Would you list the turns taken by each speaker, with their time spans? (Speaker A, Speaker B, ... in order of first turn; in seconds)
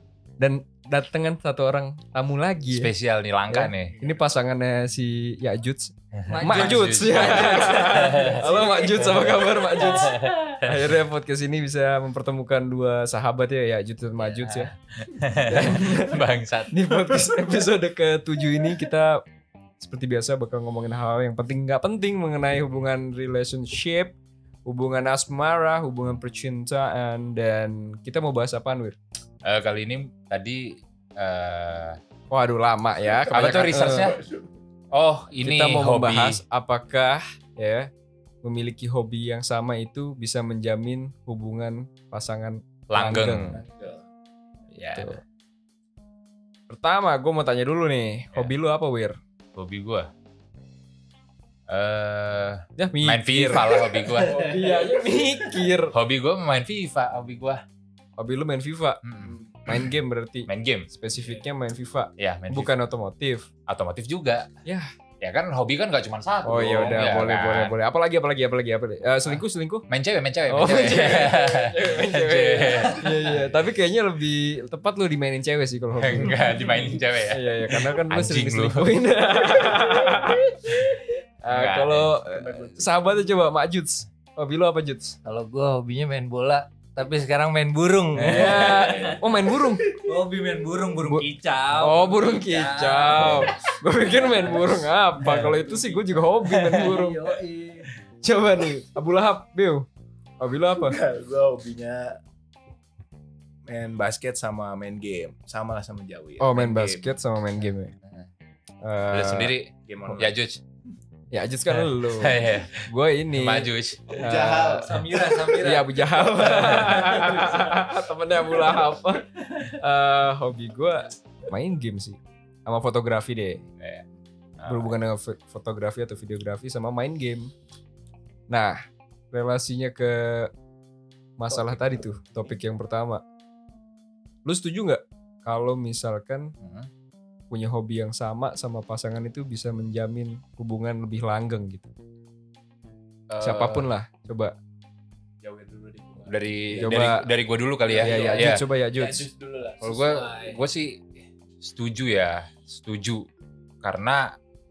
Speaker A: 0.4-2.9, 3.5-14.7, 15.5-19.2, 19.8-29.0, 32.3-34.1, 35.4-37.9, 38.4-43.6, 44.9-45.2, 46.7-49.2, 52.8-55.9, 58.2-63.5, 66.4-69.9, 70.5-85.2, 88.2-89.9, 91.0-97.2, 98.2-99.8, 100.4-101.0, 106.4-107.9, 108.8-109.5, 111.3-114.9, 115.6-123.6, 124.7-127.5, 128.5-128.8, 129.3-130.5, 131.4-133.2, 134.4-136.5, 137.5-141.9, 143.4-144.6, 146.8-147.2, 147.9-149.2
Speaker B: 2.7-3.9, 6.3-10.9, 14.2-17.2, 29.4-32.0, 33.2-34.2, 34.9-36.4, 42.9-43.9, 44.7-45.1, 49.5-50.1, 51.7-54.4, 55.9-57.6, 59.0-59.9, 60.5-60.9, 62.2-62.8, 63.7-64.5, 65.2-67.7, 69.9-73.1, 76.0-78.9, 81.5-82.2, 88.2-89.1, 96.6-96.8, 109.1-110.6, 111.7-114.3, 116.5-117.0, 123.8-124.0, 124.6-124.9, 136.6-136.9, 143.3-143.9, 146.2-148.6, 149.8-151.1, 151.6-153.2, 153.8-154.3
Speaker C: 6.3-9.9, 54.4-54.9, 85.2-93.5, 94.1-94.6, 95.2-97.9, 114.9-117.7
Speaker D: 33.0-34.5, 82.3-82.9, 100.7-102.1, 103.7-107.1, 109.8-110.3, 114.1-115.7, 131.5-132.3, 145.4-146.9, 148.0-148.4, 148.9-150.1